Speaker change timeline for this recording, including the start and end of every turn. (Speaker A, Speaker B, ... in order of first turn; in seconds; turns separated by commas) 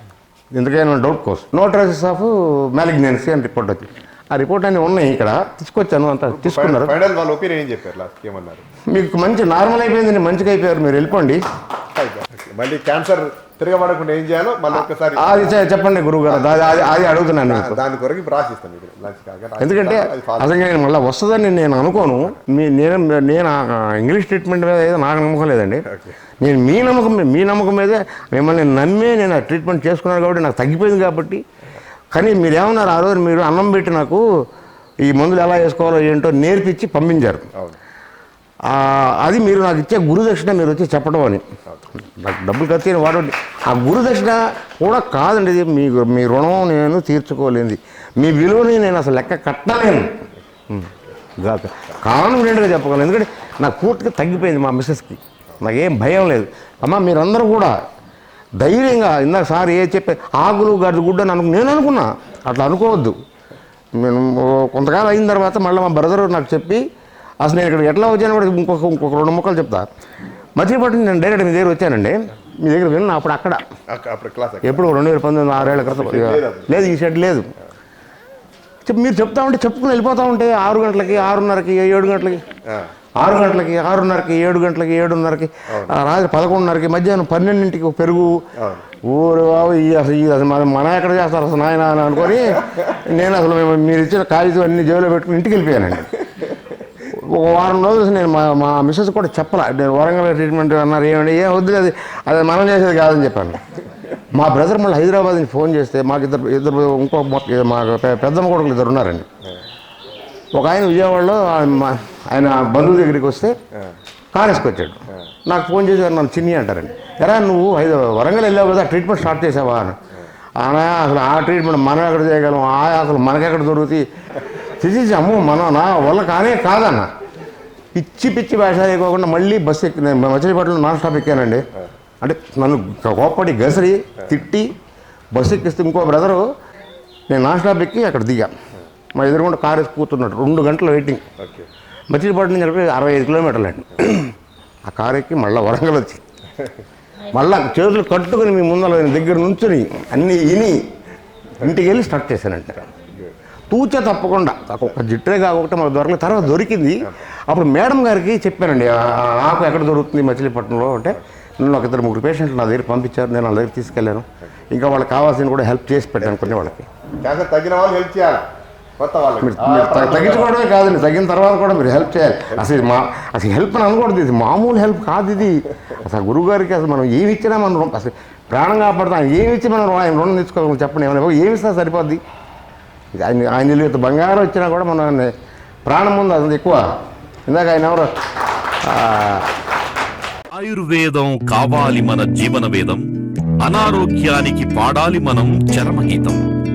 Speaker A: 0.5-7.0, Speaker B: 6.3-8.7, Speaker A: 8.9-11.4, Speaker B: 11.9-15.6, Speaker A: 15.2-17.8, Speaker B: 17.4-20.6, Speaker A: 19.6-25.9, Speaker A: 26.4-31.4, Speaker A: 32.1-34.2, Speaker A: 35.0-37.5, Speaker A: 38.7-50.1, Speaker A: 50.7-57.8, Speaker A: 58.6-63.2, Speaker A: 64.0-66.8, Speaker A: 67.4-69.9, Speaker A: 70.6-73.6, Speaker B: 73.9-74.9, Speaker A: 74.6-77.5, Speaker B: 75.6-76.8, Speaker A: 78.9-82.4, Speaker A: 83.2-88.5, Speaker B: 88.6-88.8, Speaker A: 89.0-96.2, Speaker A: 97.1-103.6, Speaker A: 104.3-109.3, Speaker A: 110.5-113.5, Speaker A: 114.3-120.0, Speaker A: 120.6-124.1, Speaker A: 124.8-127.1, Speaker A: 127.9-131.6, Speaker A: 132.2-134.7, Speaker A: 135.3-136.5, Speaker A: 137.3-138.5, Speaker A: 139.2-141.2, Speaker B: 141.4-141.7, Speaker A: 142.1-144.3, Speaker A: 144.9-146.2, Speaker A: 147.3-150.8, Speaker A: 151.6-152.9, Speaker A: 153.7-166.9, Speaker B: 166.2-166.6, Speaker B: 167.2-168.4, Speaker B: 169.0-170.5, Speaker A: 169.4-182.2, Speaker A: 183.2-185.3, Speaker A: 185.8-186.8, Speaker A: 187.5-188.1, Speaker A: 188.8-189.5, Speaker C: 190.5-193.1, Speaker C: 193.6-196.4